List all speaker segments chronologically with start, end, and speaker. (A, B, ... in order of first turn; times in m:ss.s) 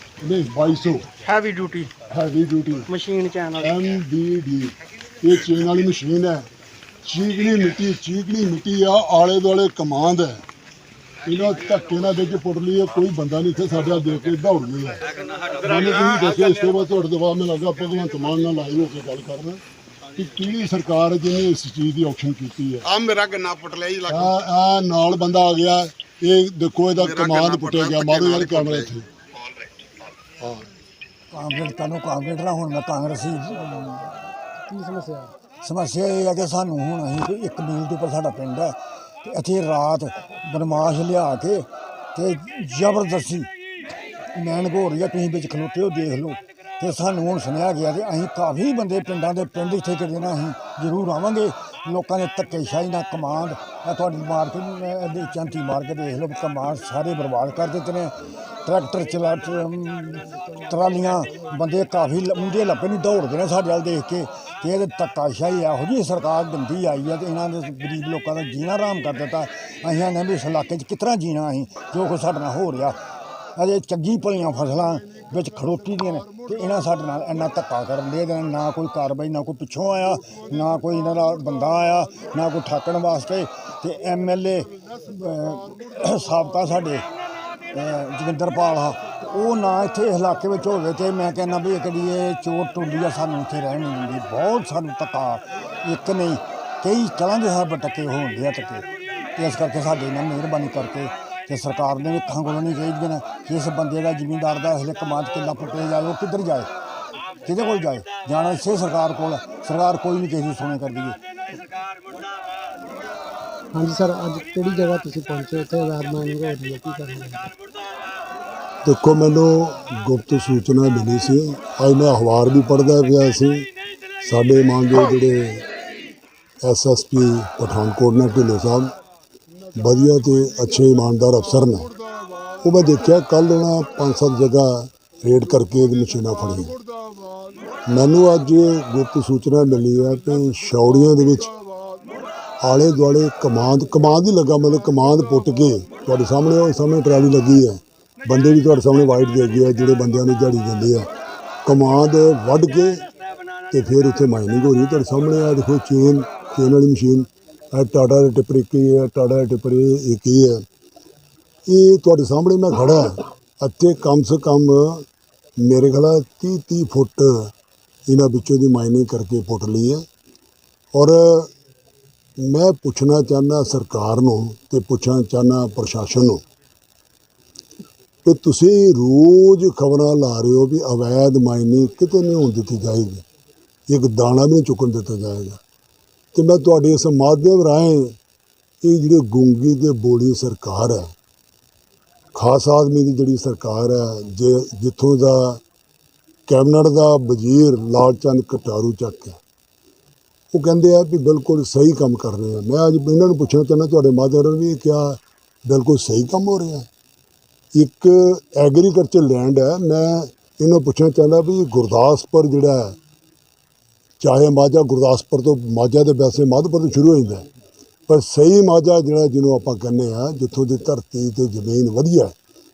0:00.2-0:01.1 A
0:01.3-0:01.9 B
0:02.1-0:02.9 A
0:02.9-0:03.7 B
0:03.6-0:06.5 A
0:07.0-0:10.4 A
0:11.2-0:19.6 A
0:20.1-0:22.9 A
0:22.9-0:24.3 C
0:24.1-0:29.1 A
0:27.0-0:28.9 C
0:30.4-0:30.7 A
0:31.3-0:34.3 D
0:34.7-0:35.3 B
0:35.6-0:43.5 D
0:44.3-1:13.0 D
1:00.3-1:01.5 B
1:13.6-1:27.1 D
1:27.7-1:46.7 D
1:47.4-1:51.2 D
1:53.7-1:57.5 B
1:58.8-2:03.7 A
2:04.2-2:05.7 A
2:06.6-2:08.9 A
2:09.8-2:11.9 A
2:12.6-2:16.8 A
2:17.9-2:21.6 A
2:22.6-2:31.1 A
2:31.6-2:33.0 A
2:33.7-2:40.6 A
2:41.7-2:45.1 A
2:45.6-2:47.5 A
2:48.1-2:50.0 A
2:50.9-2:51.5 A
2:52.4-2:56.4 A
2:58.2-3:03.2 A
3:03.9-3:05.6 A
3:06.3-3:08.2 A
3:08.8-3:11.1 A
3:12.4-3:15.6 A
3:16.5-3:19.4 A
3:20.5-3:26.9 A
3:27.7-3:33.0 A
3:34.2-3:37.5 A
3:38.1-3:42.3 A